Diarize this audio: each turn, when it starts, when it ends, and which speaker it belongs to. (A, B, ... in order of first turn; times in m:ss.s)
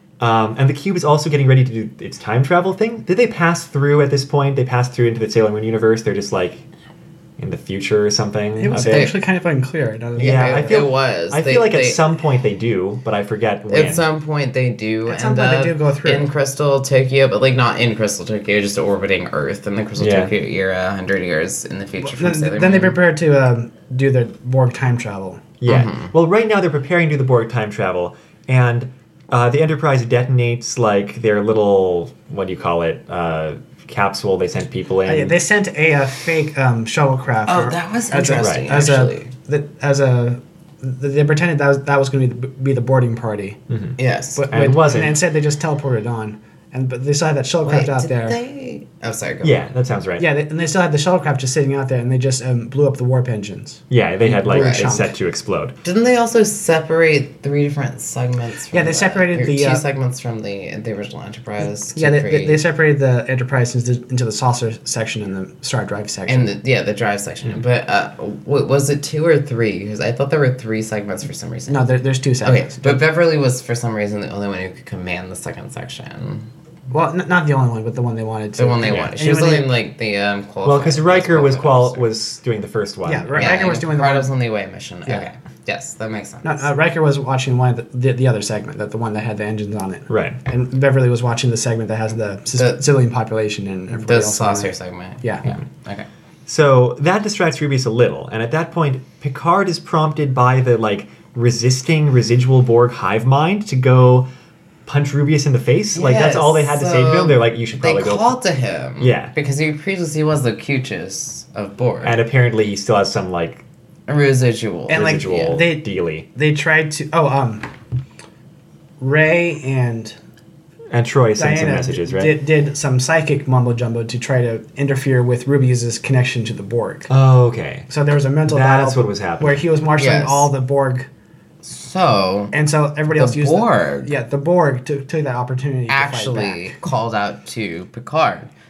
0:00.2-0:06.6 A
0:07.4-0:09.1 A
0:08.6-0:10.8 B
0:08.7-0:09.2 C
0:10.2-0:12.1 C
0:10.2-0:14.0 A
0:13.7-0:23.0 C
0:15.1-0:16.3 B
0:20.0-0:20.3 A
0:22.0-0:25.4 B
0:25.6-0:35.4 A
0:25.6-0:26.1 C
0:35.1-0:43.6 B
0:37.5-0:39.3 C
0:38.4-0:38.7 A
0:43.7-0:44.0 A
0:44.0-0:44.5 C
0:44.4-0:48.4 B
0:44.5-0:45.2 A
0:47.6-0:49.6 C
0:49.4-0:50.3 A
0:50.2-0:55.1 B
0:53.9-0:55.8 A
0:54.5-0:55.0 C
0:55.8-1:02.6 C
0:58.7-0:59.8 B
1:02.0-1:06.5 B
1:06.3-1:11.9 C
1:11.7-1:13.0 B
1:12.4-1:16.5 C
1:16.9-1:19.7 B
1:18.6-1:22.1 C
1:20.6-1:23.8 A
1:23.0-1:24.3 B
1:23.4-1:26.7 C
1:26.4-1:35.4 B
1:30.1-1:30.4 A
1:32.6-1:32.8 C
1:34.0-1:36.1 C
1:36.5-1:44.3 A
1:44.9-1:48.4 A
1:45.9-1:52.2 C
1:49.0-1:49.3 A
1:52.0-1:53.6 A
1:54.1-1:55.6 C
1:54.9-1:57.7 B
1:54.9-1:56.3 A
1:59.0-2:00.2 B
2:00.9-2:02.4 A
2:01.4-2:07.1 B
2:07.1-2:07.9 A
2:07.9-2:11.1 B
2:08.5-2:09.6 A
2:10.0-2:10.5 C
2:11.6-2:12.5 C
2:12.5-2:16.8 B
2:13.1-2:14.1 C
2:15.9-2:18.5 C